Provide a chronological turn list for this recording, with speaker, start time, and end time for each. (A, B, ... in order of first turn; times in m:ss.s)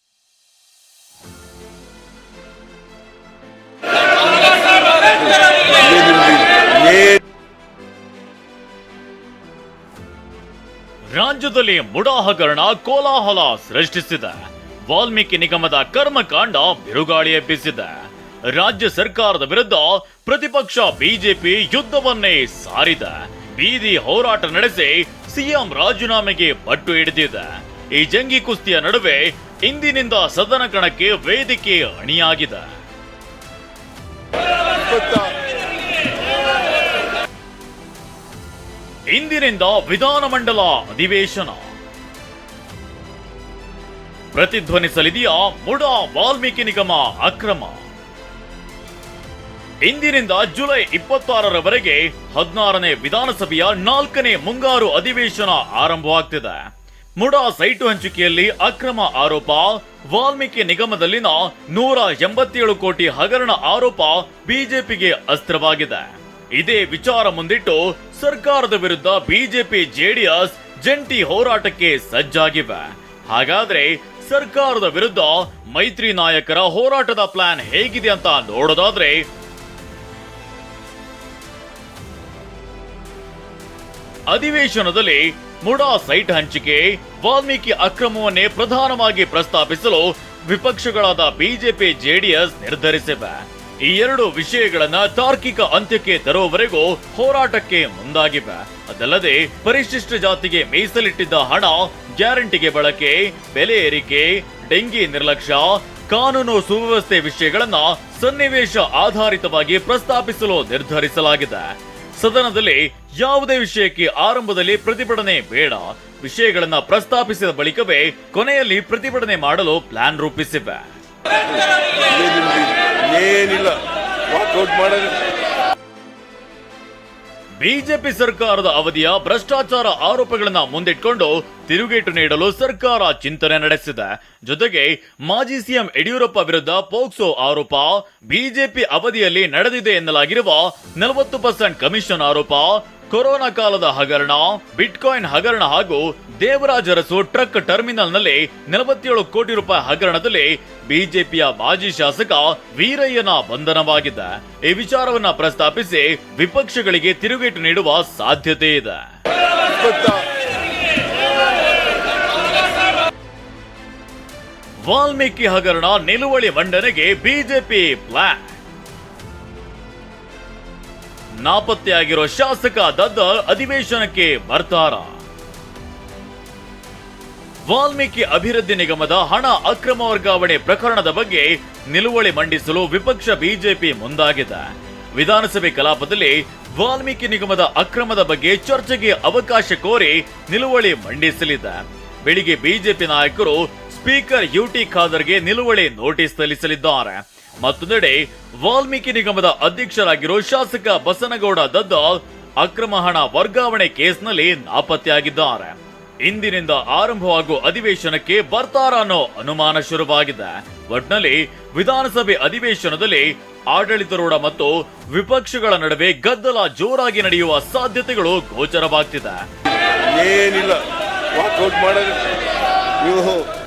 0:05.9-0:07.0 A
0:11.1-0:17.9 B
0:18.5-0:32.7 B
0:34.9-0:35.3 A
0:39.1-0:41.7 B
0:44.3-0:47.8 B
0:49.8-1:19.3 B
1:24.3-2:00.8 B
2:02.1-2:05.2 A
2:07.6-2:39.0 B
2:39.9-2:40.2 A
2:44.8-2:48.6 B
2:51.4-2:55.2 B
2:57.7-3:39.4 B
3:40.1-3:42.3 A
3:43.0-3:43.5 A